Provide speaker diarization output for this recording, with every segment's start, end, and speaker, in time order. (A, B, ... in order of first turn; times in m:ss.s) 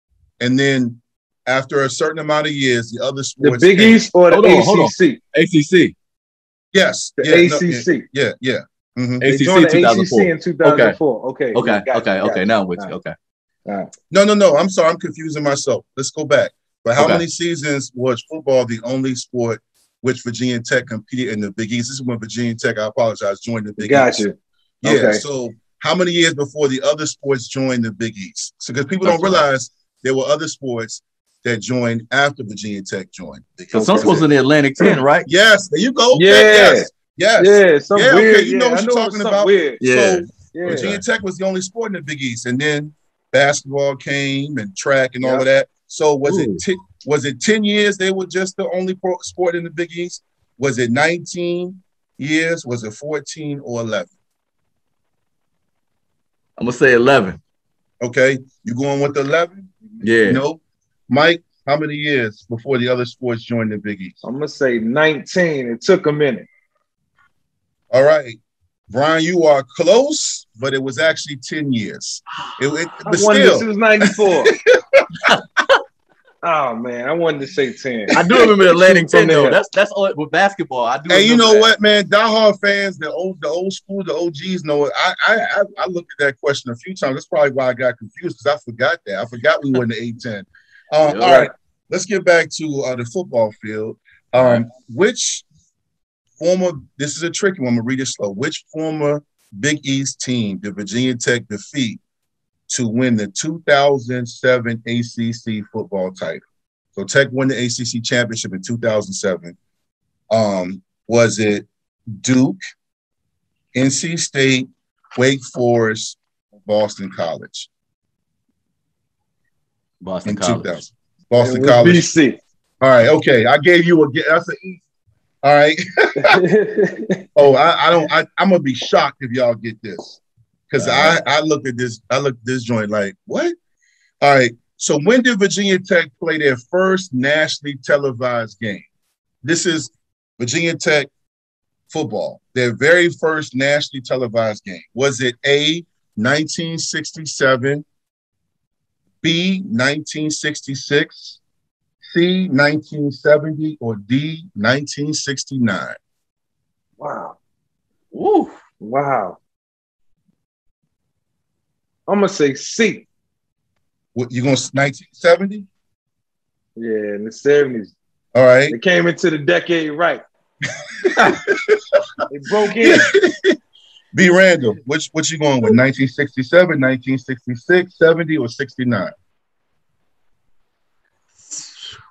0:00.4-0:04.0 A
0:03.4-0:05.2 B
0:04.3-0:05.9 C
0:06.7-0:09.3 A
0:07.2-0:08.0 B
0:09.2-0:11.0 C
0:09.3-0:13.0 B
0:11.5-0:13.2 C
0:13.7-0:13.9 B
0:14.1-0:24.2 A
0:17.0-0:17.2 C
0:23.8-0:25.2 B
0:24.8-0:34.3 A
0:29.0-0:29.4 C
0:33.7-0:34.1 B
0:33.7-0:35.3 C
0:35.3-0:54.1 A
0:36.1-0:39.8 B
0:39.8-0:41.0 C
0:40.5-0:41.0 B
0:46.2-0:46.6 C
0:56.6-0:57.4 C
0:58.0-1:04.2 A
1:00.0-1:00.4 C
1:04.2-1:06.5 B
1:07.9-1:08.4 A
1:08.9-1:13.7 A
1:13.0-1:14.5 B
1:14.3-1:15.1 A
1:15.2-1:15.8 C
1:16.4-1:18.2 B
1:18.1-1:21.7 C
1:18.2-1:18.6 A
1:18.7-1:19.6 B
1:21.1-1:35.4 A
1:31.1-1:31.4 C
1:31.2-1:31.5 B
1:34.4-1:34.6 C
1:36.4-1:42.0 A
1:42.7-1:46.4 A
1:47.0-1:49.6 A
1:50.3-1:52.6 A
1:53.7-1:57.7 A
2:00.0-2:00.8 C
2:00.2-2:02.1 A
2:01.4-2:02.4 B
2:02.8-2:04.8 A
2:05.4-2:06.4 A
2:06.2-2:07.3 B
2:07.4-2:10.2 A
2:10.7-2:13.6 A
2:10.8-2:11.2 C
2:14.2-2:18.9 A
2:19.4-2:21.1 A
2:21.9-2:27.8 A
2:29.2-2:31.4 A
2:32.1-2:36.0 A
2:37.0-2:37.4 B
2:38.1-2:38.6 C
2:38.8-2:39.4 B
2:42.1-2:43.1 B
2:44.2-2:45.7 A
2:46.8-2:47.9 B
2:48.4-2:48.8 A
2:48.7-2:50.2 B
2:51.1-2:52.0 A
2:51.1-2:51.4 C
2:52.3-2:53.1 B
2:52.8-2:53.6 A
2:54.1-2:59.1 A
3:01.5-3:01.7 C